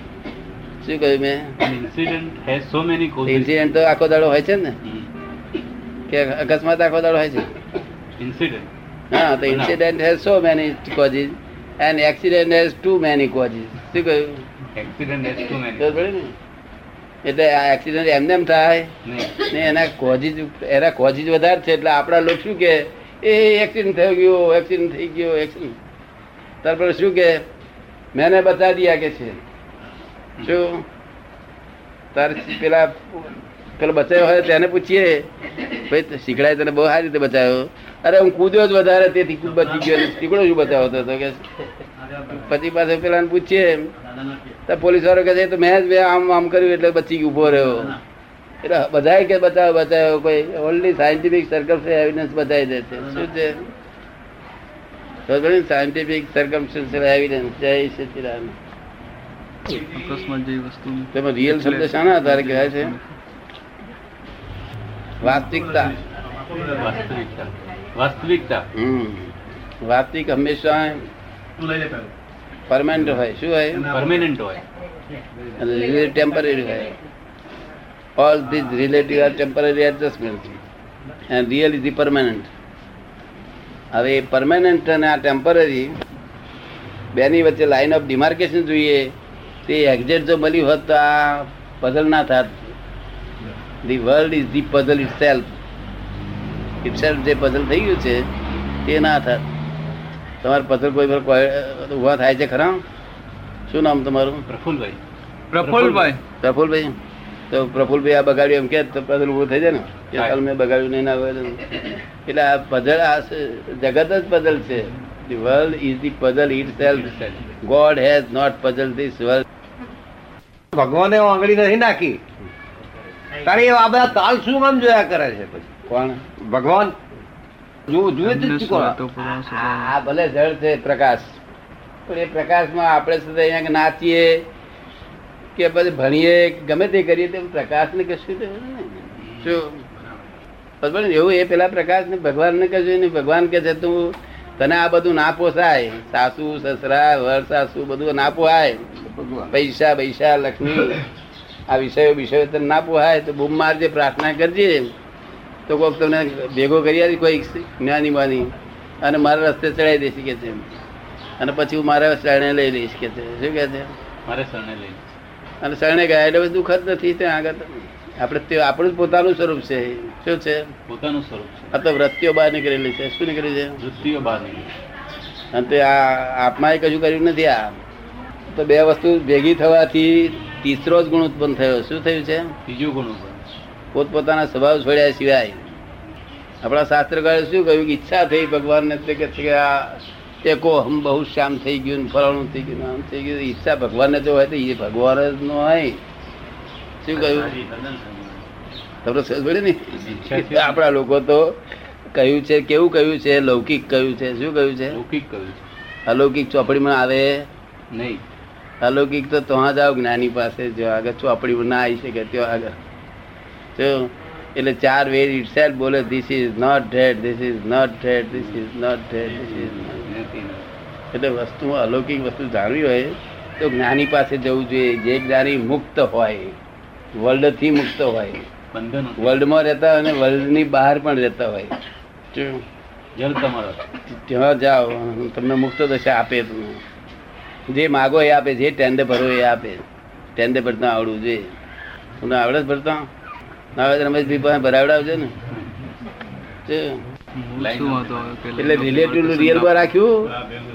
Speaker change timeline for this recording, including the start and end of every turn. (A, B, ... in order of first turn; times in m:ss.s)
0:00.8-0:01.6 A
0:01.6-0:03.5 B
0:03.3-0:04.8 A
0:06.1-0:07.5 A
0:08.2-0:08.7 B
0:09.1-0:14.4 A
0:09.5-0:09.8 B
0:14.7-0:16.0 B
0:15.8-0:16.3 A
0:17.2-0:18.9 A
0:19.0-0:19.5 B
0:19.5-0:25.8 A
0:26.6-0:27.4 A
0:28.1-0:29.4 A
0:30.4-0:30.8 A
0:32.1-0:35.3 A
0:35.9-0:41.4 A
0:42.4-0:43.9 A
0:44.7-0:48.0 A
0:48.6-0:53.6 A
0:55.3-0:58.5 A
0:59.7-1:03.0 C
1:01.1-1:02.9 A
1:05.2-1:05.9 A
1:06.7-1:08.6 B
1:08.7-1:09.3 A
1:09.8-1:11.0 A
1:12.7-1:13.9 A
1:13.9-1:14.6 B
1:15.6-1:16.9 A
1:18.2-1:20.6 A
1:21.3-1:22.5 A
1:23.9-1:25.9 A
1:27.1-1:29.1 A
1:29.6-1:32.7 A
1:33.8-1:35.5 A
1:36.8-1:38.2 A
1:38.8-1:39.4 A
1:40.4-1:42.8 A
1:43.7-1:44.4 A
1:44.5-1:45.0 B
1:45.5-1:46.2 C
1:45.6-1:46.1 B
1:46.4-1:47.0 A
1:47.5-1:51.7 A
1:52.2-1:59.4 A
1:57.2-1:57.4 B
2:00.7-2:02.2 D
2:03.4-2:05.7 D
2:05.9-2:06.2 A
2:06.4-2:07.0 D
2:07.9-2:09.0 D
2:08.2-2:09.9 C
2:09.4-2:11.3 A
2:12.1-2:14.4 A
2:15.6-2:19.8 A
2:20.8-2:28.8 A
2:29.1-2:29.5 D
2:29.5-2:31.0 A
2:31.7-2:34.9 A
2:35.7-2:40.7 A
2:41.4-2:43.9 A
2:44.2-2:45.0 B
2:45.6-2:50.7 A
2:50.9-2:51.7 B
2:51.7-2:53.8 A
2:53.8-2:54.7 B
2:55.5-2:57.7 A
2:58.5-3:02.5 A
3:02.6-3:03.4 B
3:03.9-3:05.6 A
3:06.6-3:16.0 A
3:17.0-3:17.5 A
3:17.6-3:18.1 B
3:19.0-3:21.6 A
3:20.0-3:20.8 B
3:22.1-3:25.0 A
3:24.9-3:25.6 B
3:26.0-3:27.5 A
3:27.9-3:28.2 B
3:28.8-3:32.8 A
3:33.7-3:40.0 A
3:39.2-3:40.7 B
3:41.1-3:46.6 A
3:47.2-3:48.5 A
3:48.7-3:49.4 B
3:49.2-3:51.7 A
3:52.3-3:52.6 A
3:53.2-3:53.8 B
3:54.1-3:56.8 A
3:57.7-3:59.8 A
4:00.4-4:01.5 A
4:02.2-4:03.1 A
4:03.8-4:05.3 A
4:06.6-4:07.0 A
4:07.3-4:08.8 C
4:07.6-4:09.9 B
4:08.6-4:10.3 A